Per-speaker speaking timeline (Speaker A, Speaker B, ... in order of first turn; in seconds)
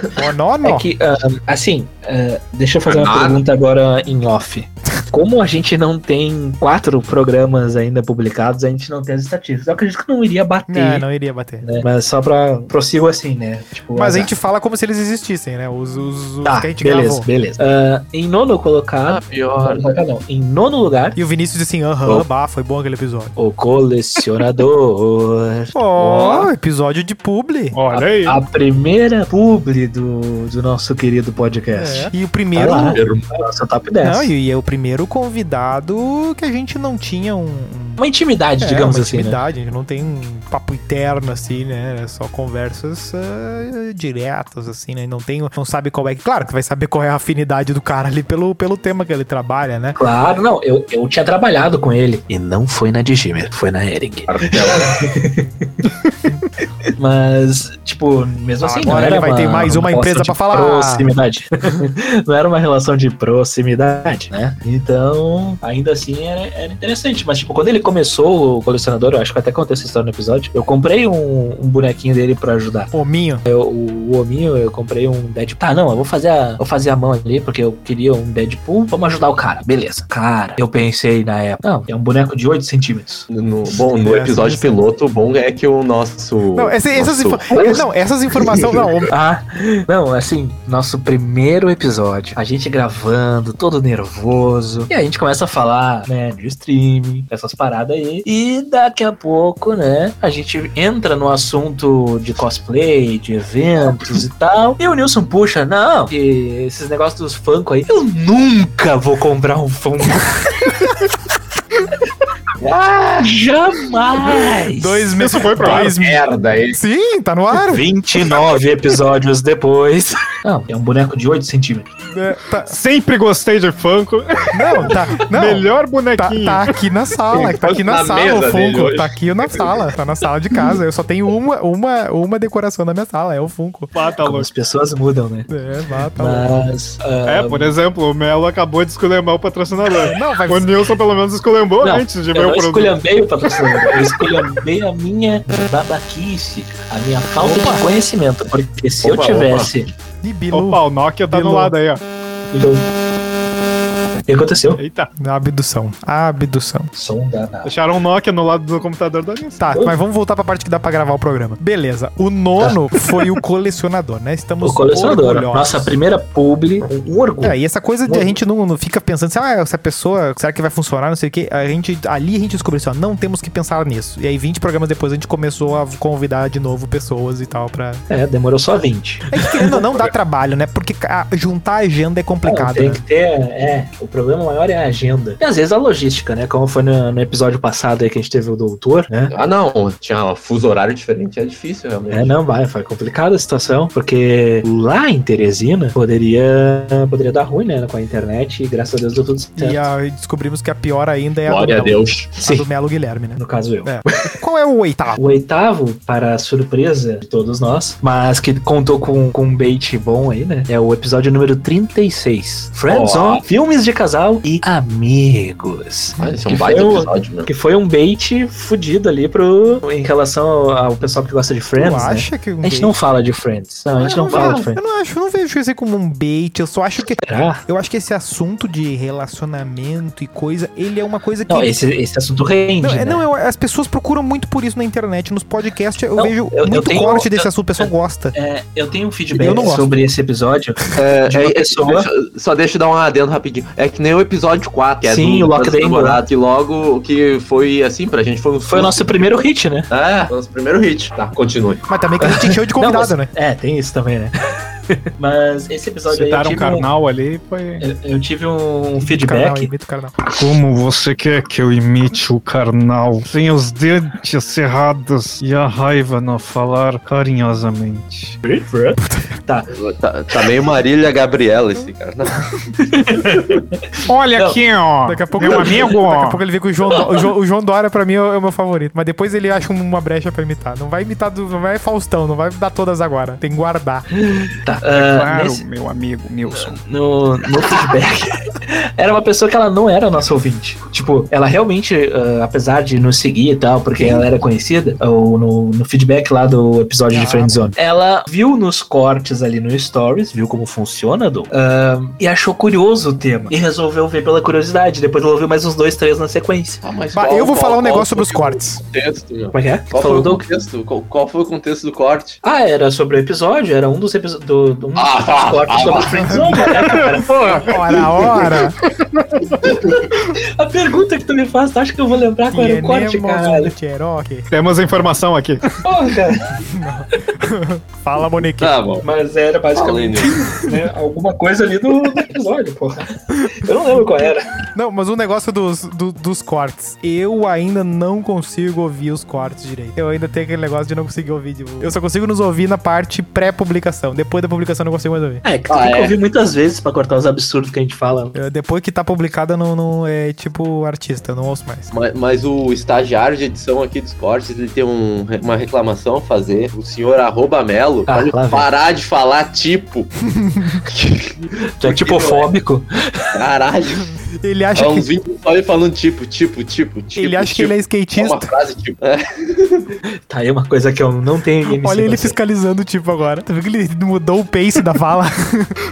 Speaker A: 0.1-0.9, 10.7-11.7, 13.9-17.3, 21.2-23.4, 25.7-27.8, 31.8-33.0, 34.0-38.0, 38.6-50.0, 58.6-61.1, 72.9-73.4, 84.0-84.8, 86.5-89.1, 114.7-117.8, 122.1-122.8, 124.5-133.9, 135.5-136.5, 139.9-141.0, 147.4-147.8, 150.2-151.7, 155.2-156.9, 159.6-165.9, 167.4-178.0, 179.3-183.0, 199.6-205.2, 221.8-223.0, 224.0-231.7, 232.8-238.3, 239.3-239.9, 251.9-253.3, 259.0-260.1, 269.0-269.4, 275.1-284.1, 297.1-297.7, 307.1-308.8, 316.1-316.8, 317.7-318.8, 322.5-324.5, 326.7-328.7, 334.8-345.4, 348.4-351.9, 360.3-360.9, 364.4-365.1, 367.2-368.5, 371.7-375.8
Speaker B: 0.6-11.1, 11.6-14.3, 16.4-21.2, 23.4-25.8, 27.9-34.3, 38.0-39.4, 50.0-55.8, 57.0-72.9, 73.5-83.3, 87.5-87.8, 89.1-110.7, 113.2-115.2, 117.6-121.9, 134.2-135.5, 136.2-137.7, 141.8-149.9, 152.5-152.9, 154.3-154.8, 156.9-157.7, 159.7-159.9, 164.6-168.4, 178.1-179.8, 182.4-189.3, 192.1-199.9, 203.4-204.0, 205.2-224.8, 227.2-227.6, 231.5-233.2, 236.2-242.1, 245.0-246.2, 248.7-249.9, 252.2-254.3, 254.9-256.9, 257.8-259.7, 268.4-269.7, 272.8-273.8, 274.4-274.6, 275.4-275.9, 284.2-285.6, 286.5-306.8, 309.5-310.4, 312.4-317.7, 319.6-323.7, 325.8-326.6, 329.0-334.5, 345.4-348.4, 358.1-358.7, 361.8-363.4, 370.3-372.4
Speaker C: 2.9-3.4, 19.1-20.0, 26.0-26.4, 32.7-33.3, 54.3-55.1, 83.3-87.9, 88.4-89.0, 112.6-113.4, 115.6-116.8, 127.3-129.8, 149.0-149.7, 189.3-192.4, 201.5-202.4, 212.9-213.4, 216.2-217.5, 224.3-224.6, 240.9-249.1, 249.9-251.8, 269.7-272.4, 306.8-312.4, 315.0-318.5, 328.6-329.1, 329.8-330.6, 345.7-346.1, 351.9-360.1, 360.9-362.5, 363.3-364.1, 364.8-370.0
Speaker D: 27.7-28.4, 115.2-115.9, 122.7-126.7, 133.9-134.5, 137.3-143.0, 150.5-152.0, 154.8-155.1, 157.6-159.6, 256.1-257.9, 260.3-268.4, 274.1-276.4, 284.9-286.8, 319.1-319.6, 324.5-325.7